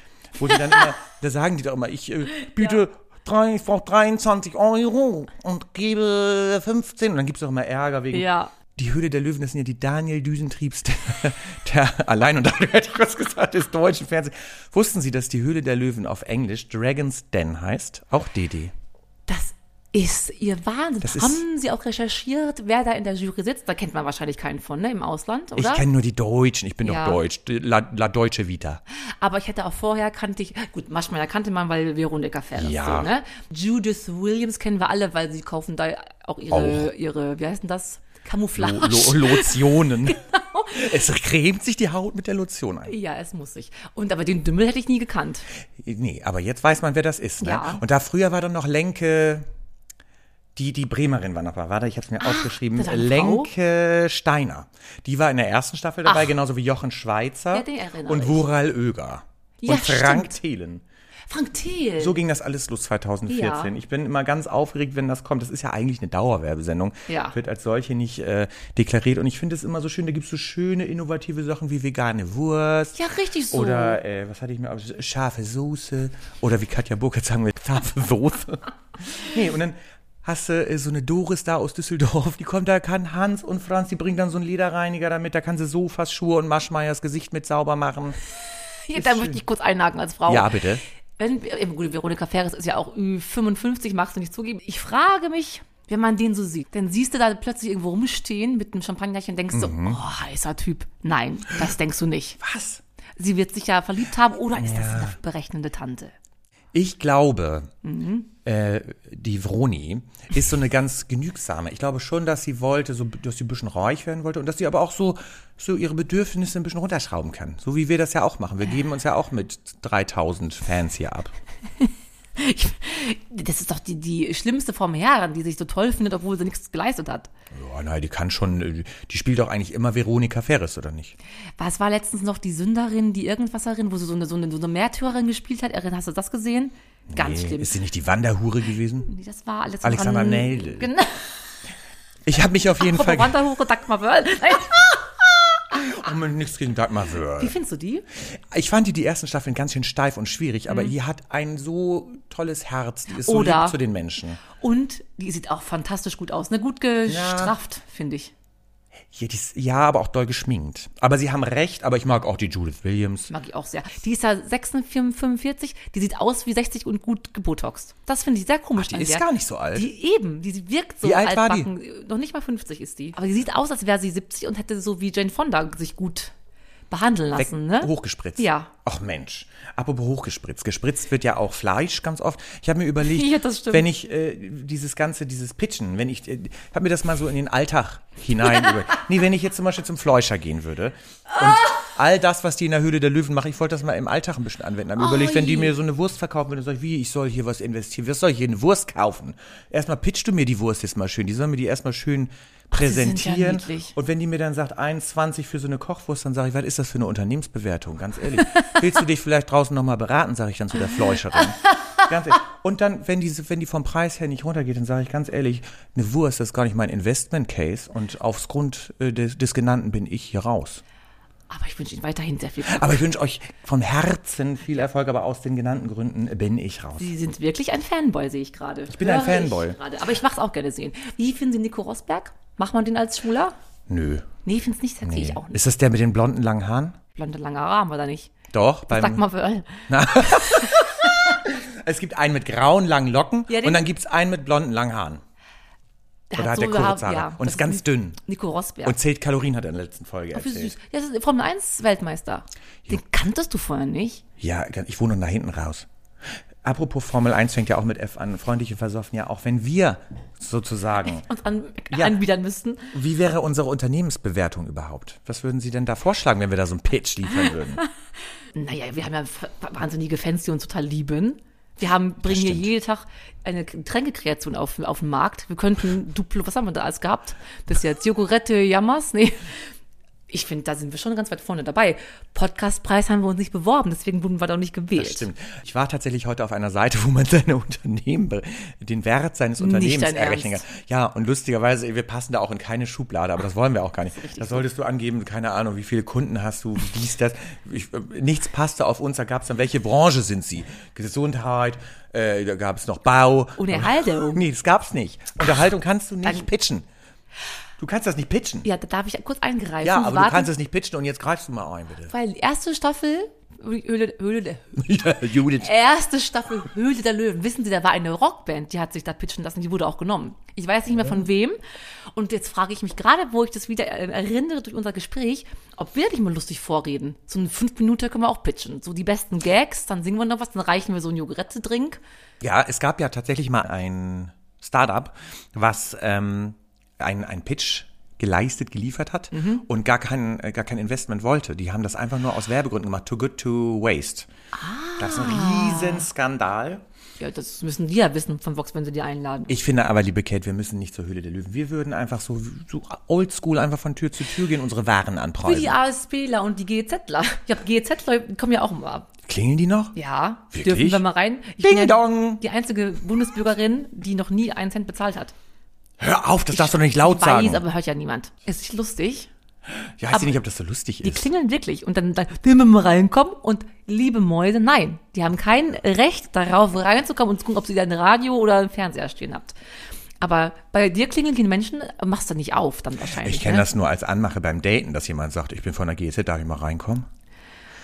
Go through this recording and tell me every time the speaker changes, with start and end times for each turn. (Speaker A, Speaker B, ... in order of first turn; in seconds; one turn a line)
Speaker A: 0.3-18.7
Speaker B: 8.1-8.5
Speaker B: 19.3-25.8
Speaker A: 21.0-21.4
Speaker A: 25.6-28.8
Speaker B: 26.8-27.2
Speaker B: 29.2-40.9
Speaker A: 32.5-33.1
Speaker A: 36.5-36.9
Speaker A: 38.5-42.9
Speaker B: 42.8-45.4
Speaker A: 45.8-49.5
Speaker B: 47.4-47.8
Speaker A: 50.5-60.8
Speaker B: 52.2-53.5
Speaker B: 56.0-56.3
Speaker B: 57.5-58.4
Speaker B: 59.6-60.4
Speaker B: 61.3-62.2
Speaker A: 62.0-73.0
Speaker B: 63.3-63.7
Speaker B: 67.1-67.4
Speaker B: 73.0-74.0
Speaker A: 73.5-88.2
Speaker B: 88.9-90.5
Speaker A: 88.9-89.4
Speaker A: 90.3-90.8
Speaker B: 91.2-102.4
Speaker A: 99.5-100.0
Speaker A: 102.4-102.8
Speaker B: 103.2-106.1
Speaker A: 104.5-105.1
Speaker A: 106.7-107.7
Speaker B: 107.8-108.3
Speaker A: 108.4-121.3
Speaker B: 122.4-127.3
Speaker A: 127.5-131.2
Speaker B: 131.6-137.7
Speaker A: 137.1-139.1
Speaker B: 139.1-141.2
Speaker A: 139.8-140.9
Speaker A: 142.2-143.4
Speaker B: 142.7-145.1
Speaker A: 145.7-147.5
Speaker B: 147.4-148.0
Speaker A: 148.2-154.4
Speaker B: 153.1-153.8
Speaker B: 154.5-158.3
Speaker A: 157.1-157.5
Speaker A: 159.1-163.3
Speaker B: 163.3-176.3
Speaker A: 168.8-169.9
Speaker A: 171.0-171.7
Speaker B: 176.9-178.7
Speaker A: 177.3-220.8
Speaker B: 183.0-183.8
Speaker B: 195.0-195.7
Speaker B: 202.7-203.9
Speaker B: 221.5-223.0
Speaker A: 222.7-227.1
Speaker B: 227.0-233.5
Speaker A: 228.9-229.8
Speaker A: 233.9-234.3
Speaker B: 234.4-235.6
Speaker A: 235.0-237.0
Speaker B: 237.1-238.3
Speaker A: 238.5-239.2
Speaker B: 238.9-240.9
Speaker A: 239.9-245.2
Speaker B: 243.5-243.8
Speaker B: 246.3-249.0
Speaker A: 246.4-248.2
Speaker A: 248.8-250.7
Speaker B: 250.3-254.2
Speaker A: 254.4-255.8
Speaker A: 256.6-261.2
Speaker B: 261.2-262.9
Speaker A: 261.9-262.2
Speaker A: 262.9-267.8
Speaker B: 268.5-279.5
Speaker A: 272.2-272.7
Speaker B: 280.3-285.3
Speaker A: 284.9-306.9
Speaker B: 289.6-290.6
Speaker B: 294.2-294.6
Speaker B: 303.6-304.4
Speaker A: 307.8-308.7
Speaker B: 308.6-310.5
Speaker A: 309.8-312.1
Speaker B: 312.1-314.8
Speaker A: 314.8-315.7
Speaker B: 315.5-321.6
Speaker B: 322.1-332.0
Speaker A: 332.4-344.3
Speaker B: 339.3-339.6
Speaker B: 344.5-346.1
Speaker A: 345.0-346.8
Speaker B: 347.2-349.6
Speaker A: 349.5-355.8
Speaker B: 355.4-359.1
Speaker A: 359.2-359.9
Speaker B: 359.9-365.3
Speaker A: 360.5-361.0
Speaker A: 361.6-362.4
Speaker A: 366.0-367.6
Speaker B: 366.5-369.3
Speaker A: 370.0-371.3
Speaker B: 371.0-379.5
Speaker B: 380.2-383.7
Speaker A: 383.2-387.1